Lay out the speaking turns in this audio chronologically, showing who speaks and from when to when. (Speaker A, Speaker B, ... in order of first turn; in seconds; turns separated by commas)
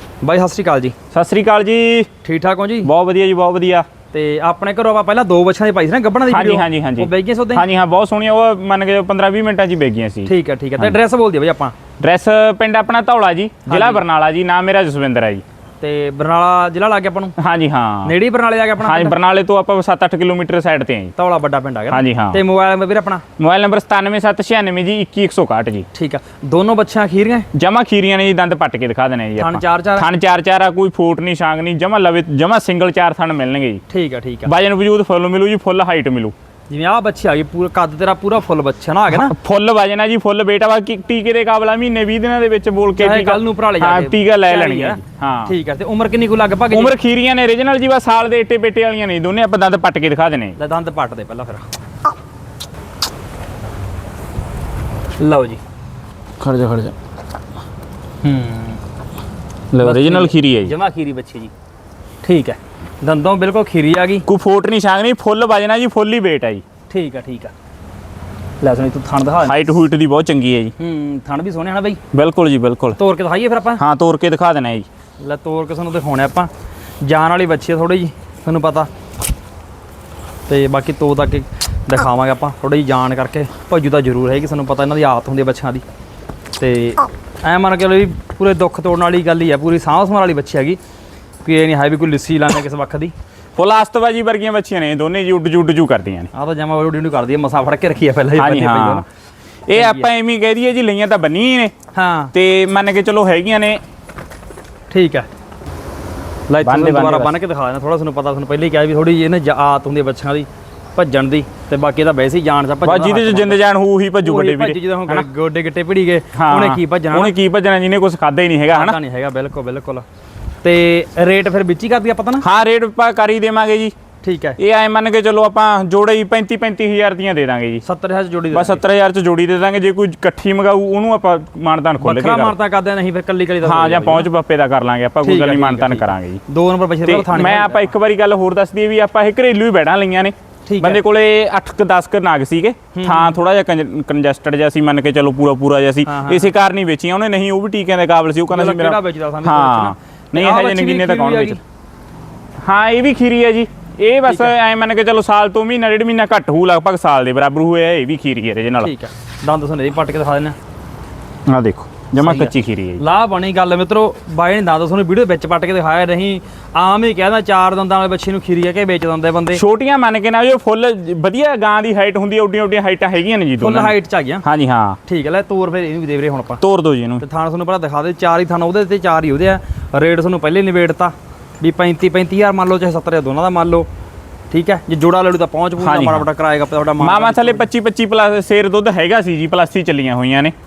Speaker A: 0.2-0.9, Speaker B: 1.1-2.1, Speaker A: 2.2-2.9, Speaker B: 2.8-3.9, Speaker A: 4.1-7.6, Speaker B: 6.3-10.9, Speaker A: 10.2-11.8, Speaker B: 12.0-15.4, Speaker A: 13.7-14.0, Speaker A: 15.8-17.4, Speaker B: 17.4-18.1, Speaker A: 18.0-19.2, Speaker B: 18.8-21.1, Speaker A: 21.1-23.2, Speaker B: 21.9-22.4, Speaker B: 23.4-25.9, Speaker A: 25.9-27.5, Speaker B: 27.5-33.8, Speaker A: 29.4-30.1, Speaker A: 33.9-34.5, Speaker B: 34.5-36.3, Speaker A: 36.7-39.3, Speaker B: 39.1-45.5, Speaker A: 43.0-46.9, Speaker B: 46.7-50.6, Speaker A: 50.6-51.6, Speaker A: 55.2-55.6, Speaker B: 56.4-56.9, Speaker A: 58.2-58.8, Speaker B: 59.7-60.7, Speaker A: 59.8-61.5, Speaker A: 62.2-64.2, Speaker B: 64.2-66.6, Speaker A: 66.9-67.5, Speaker A: 68.6-69.6, Speaker B: 69.4-70.7, Speaker A: 70.8-72.0, Speaker B: 72.1-73.0, Speaker A: 73.0-73.8, Speaker B: 73.8-74.9, Speaker A: 75.2-76.5, Speaker A: 77.0-78.9, Speaker A: 80.5-85.8, Speaker A: 86.6-90.8, Speaker A: 91.4-93.1, Speaker B: 93.5-96.3, Speaker A: 96.3-99.0, Speaker B: 98.3-99.0, Speaker B: 99.7-101.7, Speaker A: 99.7-100.1, Speaker A: 101.9-102.3, Speaker B: 102.3-103.8, Speaker A: 104.9-105.3, Speaker A: 106.5-113.6, Speaker B: 106.6-107.4, Speaker B: 112.8-115.2, Speaker A: 114.2-117.3, Speaker B: 116.3-119.0, Speaker A: 118.7-120.0, Speaker A: 120.6-122.5, Speaker B: 122.4-123.9, Speaker A: 124.2-124.6, Speaker B: 124.6-127.8, Speaker A: 127.8-128.8, Speaker B: 128.5-132.6, Speaker A: 132.0-134.3, Speaker B: 133.6-136.4, Speaker A: 135.2-137.9, Speaker B: 137.0-151.6, Speaker A: 140.7-141.0, Speaker A: 142.9-143.4, Speaker A: 146.0-146.5, Speaker A: 148.5-151.6, Speaker B: 152.6-158.9, Speaker A: 154.3-154.5, Speaker A: 158.8-160.6, Speaker B: 161.5-163.0, Speaker A: 162.2-169.6, Speaker B: 169.5-175.0, Speaker A: 173.6-174.4, Speaker A: 175.0-176.6, Speaker B: 176.6-177.2, Speaker A: 177.2-183.9, Speaker A: 184.5-187.7, Speaker B: 185.8-186.2, Speaker B: 187.0-190.5